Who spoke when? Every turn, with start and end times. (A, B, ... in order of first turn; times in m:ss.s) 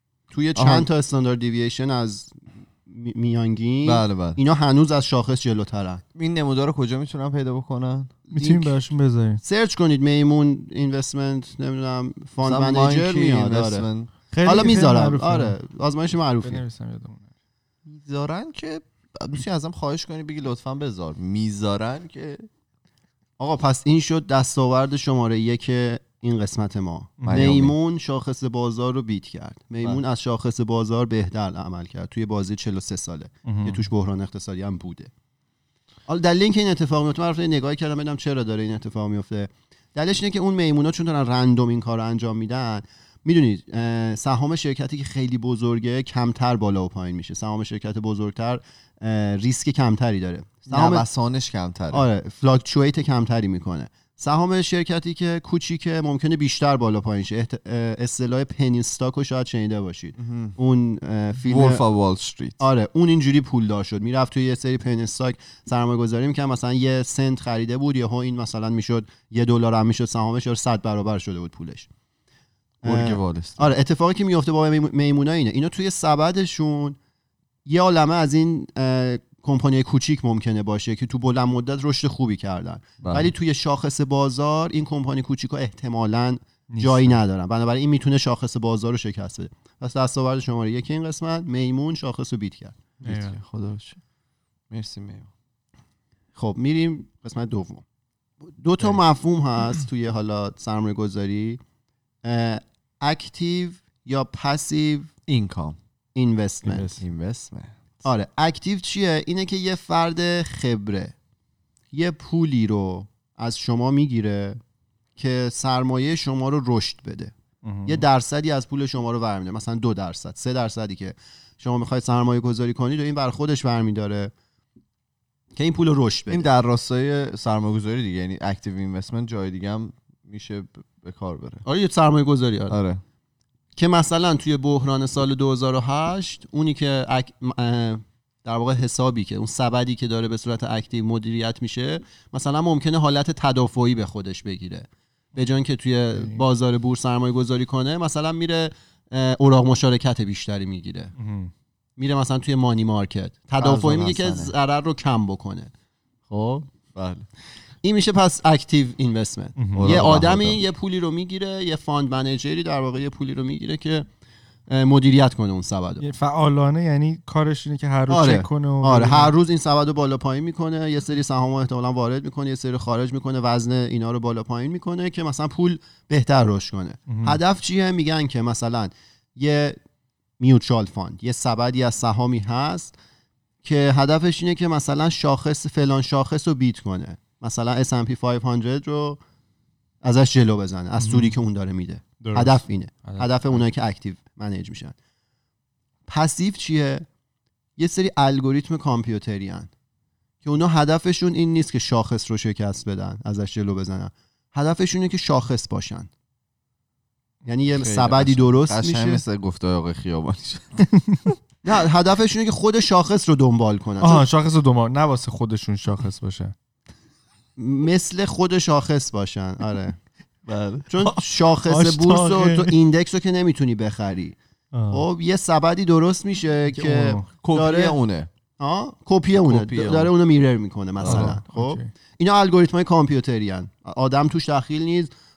0:00.3-0:06.0 A
0:00.5-0:00.9 B
0:03.8-0:04.4 B
0:06.1-0:08.1 B
0:08.3-0:09.4 C
0:08.3-0:08.8 A
0:09.4-0:13.9 A
0:12.4-0:14.1 B
0:14.3-0:15.6 C
0:14.4-0:16.6 A
0:16.4-0:17.3 C
0:17.8-0:22.5 B
0:23.4-0:35.1 A
0:27.3-0:27.7 B
0:33.4-0:33.8 C
0:36.1-0:51.0 A
0:50.7-0:52.0 B
0:51.9-1:01.8 A
1:00.2-1:00.5 B
1:01.5-1:02.6 B
1:02.6-1:11.9 A
1:12.8-1:17.0 A
1:12.8-1:13.7 B
1:17.6-1:32.8 A
1:23.0-1:23.3 B
1:26.7-1:27.2 C
1:33.0-1:33.4 C
1:33.0-1:34.0 B
1:34.7-1:35.3 B
1:36.4-1:37.8 A
1:38.6-1:41.6 A
1:42.2-1:45.1 A
1:45.3-1:45.8 B
1:46.1-1:47.0 A
1:46.6-1:47.8 B
1:48.0-1:51.1 A
1:51.9-1:54.6 A
1:55.2-1:57.3 A
1:57.6-1:58.0 C
1:57.8-2:04.3 A
2:05.6-2:06.5 A
2:06.3-2:11.6 B
2:11.6-2:12.8 A
2:12.7-2:13.0 B
2:13.8-2:31.1 A
2:26.1-2:26.4 C
2:31.2-2:31.5 C
2:32.0-2:35.7 A
2:33.6-2:34.5 B
2:36.3-2:36.7 A
2:36.9-2:37.3 B
2:37.8-2:44.0 A
2:39.6-2:40.0 C
2:39.7-2:40.6 B
2:44.7-2:46.0 A
2:46.0-2:49.3 C
2:48.1-2:59.8 A
2:57.1-2:57.4 C
3:00.4-3:02.9 A
3:03.6-3:09.2 A
3:10.0-3:14.9 A
3:11.0-3:11.4 C
3:12.2-3:13.6 C
3:16.1-3:17.0 A
3:17.8-3:19.7 A
3:20.4-3:26.1 A
3:27.4-3:29.2 A
3:27.8-3:30.8 B
3:30.9-3:31.3 C
3:31.6-3:34.3 A
3:34.0-3:36.5 C
3:37.6-3:40.0 A
3:40.5-3:40.8 B
3:40.7-3:42.8 C
3:40.9-3:44.4 A
3:44.7-3:45.0 C
3:44.9-3:48.0 A
3:46.7-3:47.3 C
3:47.4-3:48.3 B
3:48.6-3:55.1 A
3:49.4-3:50.1 B
3:51.0-3:51.4 B
3:51.0-3:51.9 C